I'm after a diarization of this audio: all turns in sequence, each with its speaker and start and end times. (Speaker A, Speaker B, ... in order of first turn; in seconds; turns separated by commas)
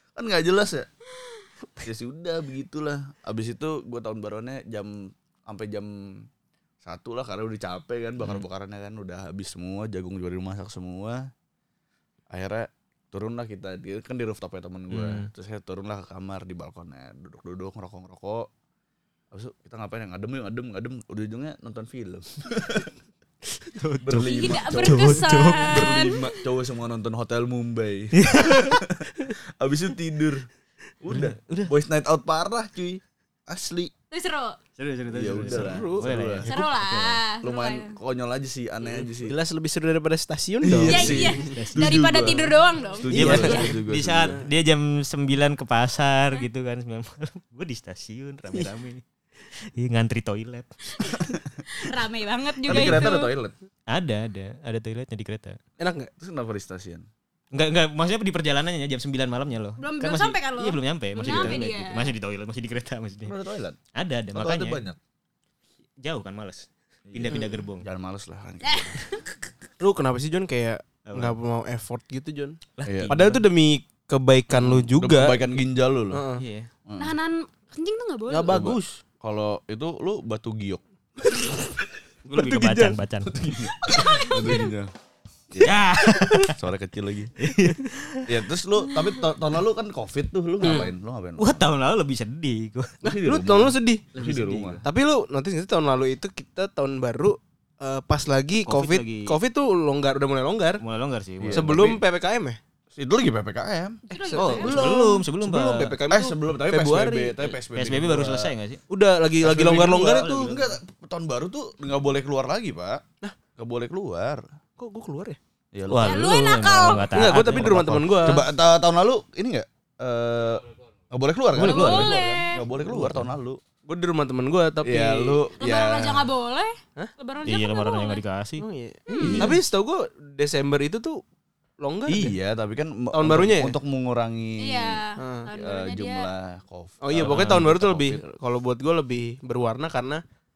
Speaker A: 0.1-0.9, Speaker A: 1.8-6.3, Speaker A: 6.8-11.3, Speaker A: 12.3-18.5, Speaker B: 14.9-15.3, Speaker A: 19.3-22.9, Speaker B: 23.7-25.9, Speaker A: 24.0-30.4, Speaker C: 24.1-26.4, Speaker B: 28.1-28.8, Speaker A: 31.0-33.9, Speaker B: 31.1-31.7, Speaker C: 34.1-34.6, Speaker B: 34.8-37.2, Speaker A: 35.1-36.5, Speaker D: 35.5-36.1, Speaker C: 36.5-38.0, Speaker A: 37.4-39.3, Speaker D: 38.9-41.4, Speaker A: 40.6-44.4, Speaker C: 40.9-43.7, Speaker B: 41.0-42.5, Speaker B: 43.1-49.0, Speaker D: 43.1-43.7, Speaker B: 49.5-51.1, Speaker C: 51.0-53.3, Speaker A: 52.6-53.5, Speaker B: 53.9-55.6, Speaker D: 55.8-56.1, Speaker A: 56.2-57.1, Speaker B: 57.5-63.3, Speaker C: 59.8-62.1, Speaker A: 61.2-61.6, Speaker A: 63.2-63.8, Speaker B: 63.9-64.8, Speaker A: 64.3-65.0, Speaker B: 66.0-67.9, Speaker A: 67.1-69.0, Speaker C: 68.6-69.2, Speaker D: 69.8-75.4, Speaker B: 71.1-71.3, Speaker B: 72.8-73.5, Speaker A: 72.8-73.1, Speaker A: 74.5-76.2, Speaker D: 76.1-76.4, Speaker B: 76.4-76.7, Speaker A: 76.9-77.1, Speaker C: 77.0-78.6, Speaker D: 78.3-79.0, Speaker A: 78.5-81.3, Speaker B: 82.2-83.4, Speaker D: 82.3-83.0, Speaker A: 83.2-84.9, Speaker C: 83.9-84.7, Speaker A: 85.5-87.3, Speaker B: 85.6-86.6, Speaker B: 87.4-88.3, Speaker A: 88.3-91.6, Speaker D: 90.6-90.9, Speaker B: 91.4-93.0, Speaker D: 93.0-94.0, Speaker A: 93.0-94.8, Speaker B: 94.2-94.8, Speaker D: 94.8-100.8, Speaker B: 98.6-99.3, Speaker B: 100.8-101.9, Speaker A: 101.4-102.0, Speaker D: 101.5-102.6, Speaker A: 102.9-105.2, Speaker C: 104.1-105.0, Speaker D: 104.1-107.5, Speaker B: 104.5-106.0, Speaker A: 106.0-108.5, Speaker B: 107.7-108.8, Speaker D: 108.9-110.5, Speaker A: 109.4-113.0, Speaker B: 110.0-110.6, Speaker A: 113.5-114.4, Speaker D: 114.8-115.4, Speaker A: 115.7-116.3, Speaker B: 115.9-118.4, Speaker C: 116.0-117.4, Speaker D: 117.1-118.4, Speaker A: 117.5-123.6, Speaker B: 121.5-122.1, Speaker C: 121.6-122.7, Speaker D: 123.8-125.4, Speaker A: 124.8-126.3, Speaker C: 125.6-128.2, Speaker B: 127.4-128.6, Speaker D: 128.6-131.2, Speaker C: 129.1-129.5, Speaker B: 129.2-129.5, Speaker A: 129.2-129.5, Speaker D: 131.8-132.3, Speaker A: 132.1-138.2, Speaker D: 133.1-133.8, Speaker C: 134.6-136.3, Speaker D: 135.2-135.5, Speaker D: 137.0-140.2